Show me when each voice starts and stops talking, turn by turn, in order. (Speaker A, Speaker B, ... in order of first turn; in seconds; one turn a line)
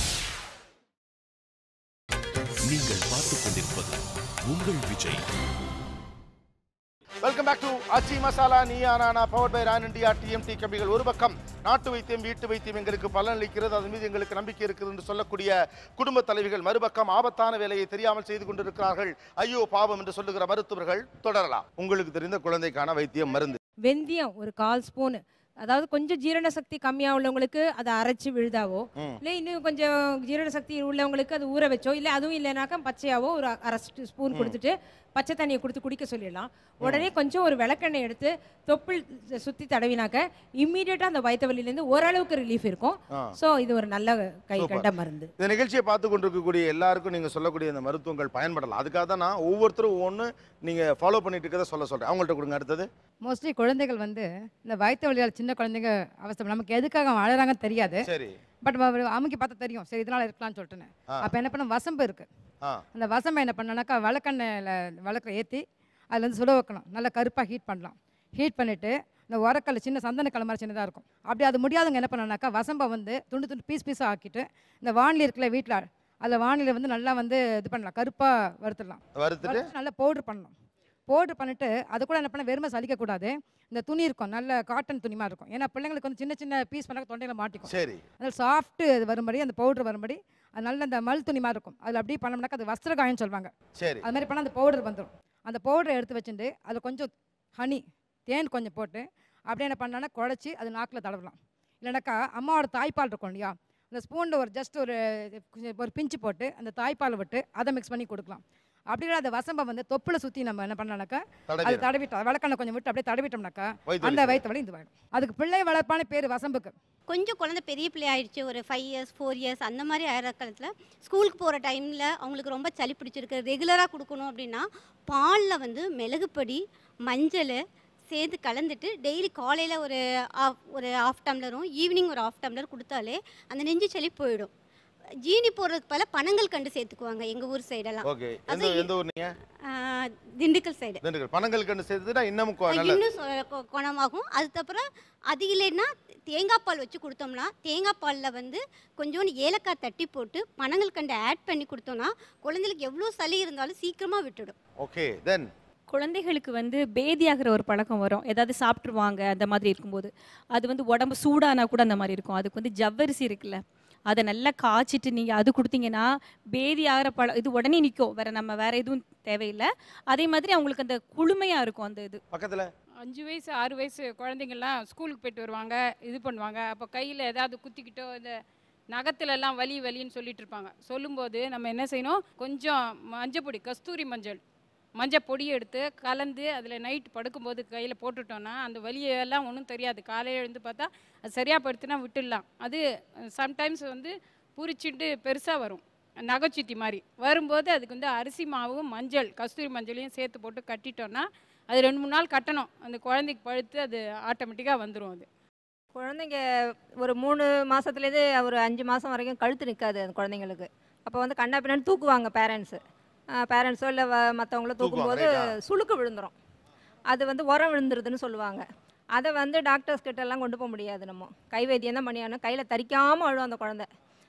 Speaker A: 2.6-5.3
Speaker B: 7.2-23.6
Speaker C: 23.8-45.3
Speaker B: 36.8-37.1
Speaker B: 44.5-52.9
Speaker D: 53.2-58.1
Speaker B: 58.0-58.4
Speaker D: 58.6-62.3
Speaker D: 62.9-80.5
Speaker B: 79.2-79.7
Speaker D: 81.1-93.5
Speaker B: 87.7-88.0
Speaker B: 93.8-94.0
Speaker D: 94.0-116.7
Speaker B: 111.5-111.8
Speaker B: 113.9-114.4
Speaker E: 117.1-127.5
Speaker E: 128.1-134.5
Speaker E: 135.2-138.9
Speaker B: 138.0-139.3
Speaker E: 139.7-141.0
Speaker B: 141.0-143.0
Speaker E: 142.7-154.5
Speaker B: 154.8-155.5
Speaker F: 155.9-172.2
Speaker B: 172.3-172.7
Speaker G: 173.0-178.4
Speaker G: 178.9-184.4
Speaker G: 185.0-192.8
Speaker G: 193.3-205.2
Speaker H: 205.9-206.4
Speaker H: 207.0-212.8
Speaker H: 213.4-216.3
Speaker B: 214.8-215.5
Speaker H: 217.1-218.6
Speaker H: 219.1-223.8